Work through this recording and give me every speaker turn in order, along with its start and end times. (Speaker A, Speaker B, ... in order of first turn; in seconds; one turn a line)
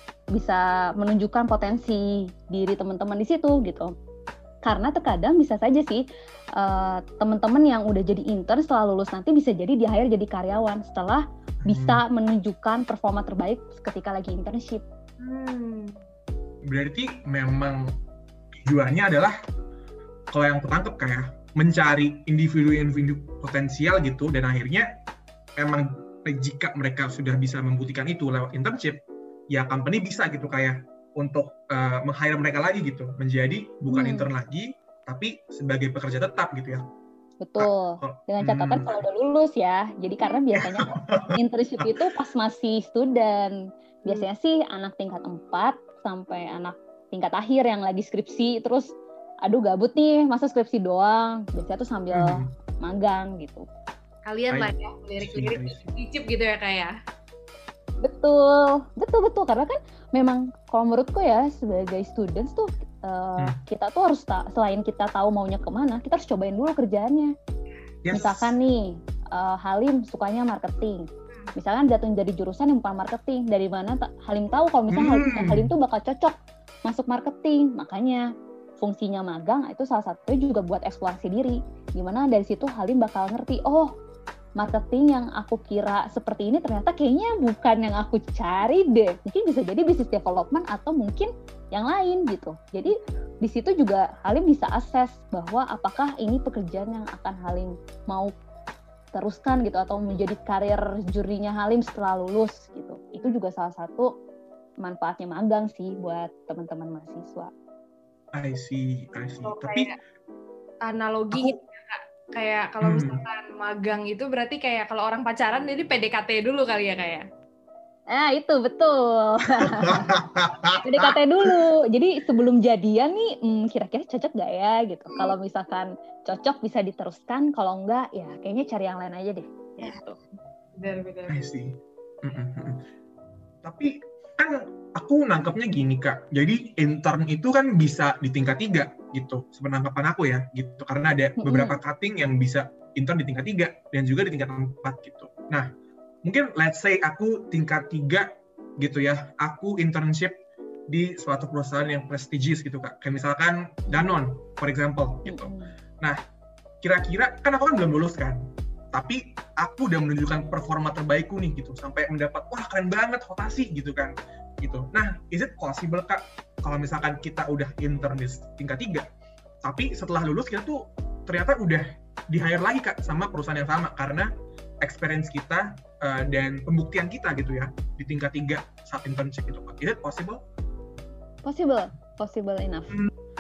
Speaker A: 0.3-3.9
Speaker A: 4.6-6.0
Speaker A: 6.6-14.8
Speaker B: 11.6-12.0
Speaker C: 15.2-16.0
Speaker B: 16.6-17.9
Speaker B: 18.5-19.3
Speaker B: 20.3-24.9
Speaker B: 25.6-36.9
Speaker A: 33.9-34.3
Speaker A: 37.4-53.6
Speaker B: 37.6-39.0
Speaker B: 40.6-41.9
Speaker B: 52.1-52.5
Speaker C: 54.3-56.9
Speaker B: 54.5-55.8
Speaker A: 58.0-67.3
Speaker B: 68.0-68.6
Speaker A: 68.1-78.2
Speaker B: 74.9-75.7
Speaker A: 78.8-83.9
Speaker A: 84.6-98.3
Speaker A: 99.1-104.1
Speaker A: 104.8-107.5
Speaker B: 108.3-109.9
Speaker C: 109.4-109.9
Speaker C: 110.9-117.2
Speaker B: 112.8-113.2
Speaker A: 118.1-120.0
Speaker B: 119.6-121.5
Speaker A: 120.8-130.2
Speaker C: 130.8-131.4
Speaker B: 131.3-132.8
Speaker B: 133.6-145.7
Speaker A: 141.4-141.8
Speaker B: 146.2-150.4
Speaker B: 150.9-156.2
Speaker A: 155.3-155.7
Speaker B: 156.8-158.4
Speaker B: 158.9-169.1
Speaker B: 169.6-174.3
Speaker B: 174.8-180.4
Speaker A: 181.4-182.9